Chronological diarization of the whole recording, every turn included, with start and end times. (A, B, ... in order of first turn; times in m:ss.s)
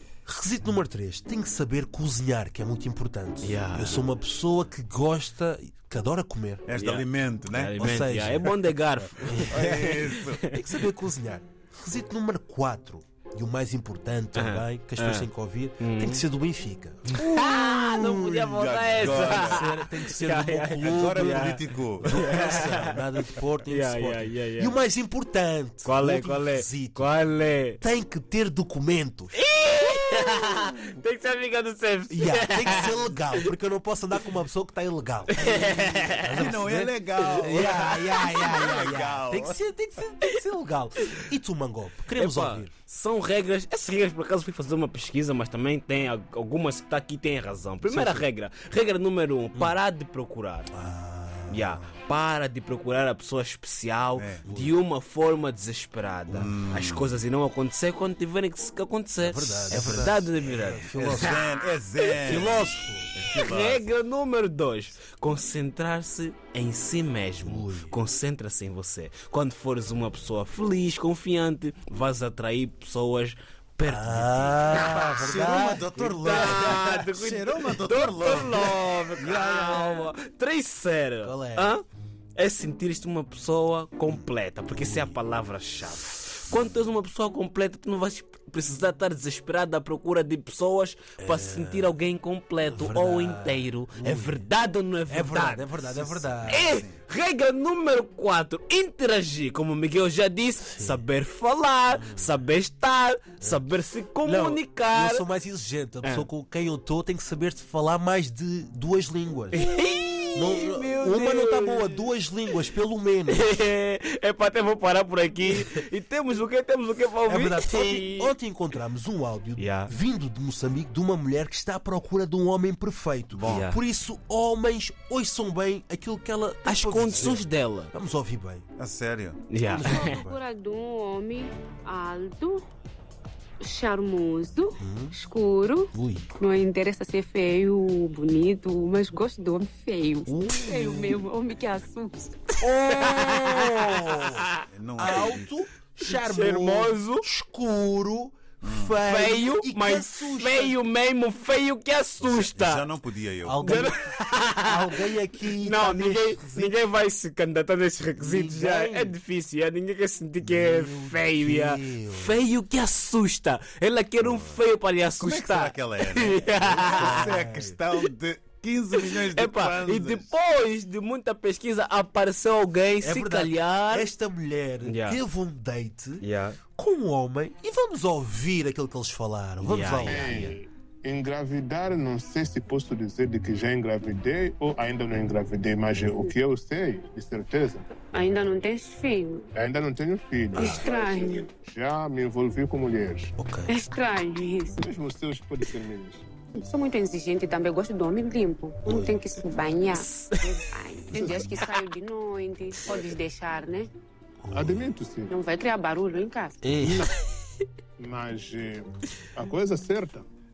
0:00.3-0:06.6 A
0:03.4-0:04.0 B
0:06.7-0:08.1 C
0:06.7-0:10.7 B
0:07.8-0:08.5 A
0:09.2-0:27.2 A
0:09.5-0:10.4 C
0:14.4-0:15.3 B
0:15.8-0:16.2 B
0:17.1-0:24.8 B
0:18.5-0:19.7 C
0:20.8-0:22.2 C
0:25.8-0:27.8 B
0:27.8-0:29.4 A
0:29.4-0:33.5 B
0:32.1-0:42.7 A
0:35.3-0:36.5 B
0:36.3-0:39.6 C
0:37.2-0:37.8 B
0:42.1-0:50.7 B
0:47.9-0:48.2 A
0:50.7-0:51.8 A
0:51.5-1:01.5 B
0:54.2-0:54.4 C
0:54.4-0:54.8 A
0:56.3-0:56.5 A
0:56.4-0:57.2 C
0:59.2-1:01.5 A
1:01.0-1:03.9 C
1:02.1-1:03.2 A
1:02.1-1:02.4 B
1:03.3-1:15.6 B
1:07.4-1:08.0 A
1:13.8-1:16.8 A
1:14.9-1:19.0 C
1:16.2-1:21.8 B
1:19.2-1:20.1 A
1:21.2-1:21.7 A
1:22.4-1:45.3 B
1:24.1-1:25.2 A
1:31.2-1:32.0 A
1:32.6-1:34.5 A
1:35.1-1:36.8 A
1:36.5-1:36.9 C
1:40.6-1:41.0 A
1:41.9-1:42.3 A
1:43.4-1:49.7 A
1:49.5-1:52.1 B
1:50.3-1:53.5 A
1:53.3-1:58.3 B
1:57.2-2:08.7 A
1:59.6-1:59.9 B
2:03.3-2:03.7 C
2:03.5-2:03.8 B
2:06.6-2:07.9 B
2:08.8-2:09.5 C
2:09.5-2:10.2 B
2:09.6-2:10.4 A
2:09.7-2:12.6 D
2:13.6-2:22.6 D
2:14.8-2:15.2 A
2:15.9-2:16.3 A
2:20.3-2:21.2 A
2:22.6-2:25.4 B
2:22.9-2:30.8 A
2:24.7-2:25.5 C
2:26.0-2:27.2 B
2:28.6-2:29.0 C
2:29.0-2:32.9 B
2:32.2-2:33.7 C
2:33.4-2:36.8 A
2:33.6-2:47.3 B
2:38.2-2:39.2 A
2:40.4-2:42.4 A
2:44.2-2:44.6 C
2:45.2-2:50.3 C
2:46.7-2:47.8 A
2:49.0-2:54.1 B
2:53.0-2:56.2 A
2:54.8-2:55.2 B
2:56.2-2:56.6 B
2:56.8-3:00.6 A
2:59.6-3:00.5 B
3:00.0-3:07.9 E
3:08.1-3:09.5 D
3:09.6-3:13.3 E
3:10.5-3:10.9 A
3:10.6-3:11.5 D
3:13.4-3:13.7 A
3:13.7-3:14.8 D
3:14.8-3:16.2 E
3:16.6-3:23.9 D
3:18.8-3:19.2 A
3:20.0-3:20.5 B
3:21.3-3:21.6 E
3:22.9-3:23.1 E
3:24.4-3:24.9 A
3:24.5-3:25.3 E
3:25.3-3:26.6 D
3:26.6-3:27.1 A
3:28.0-3:30.2 E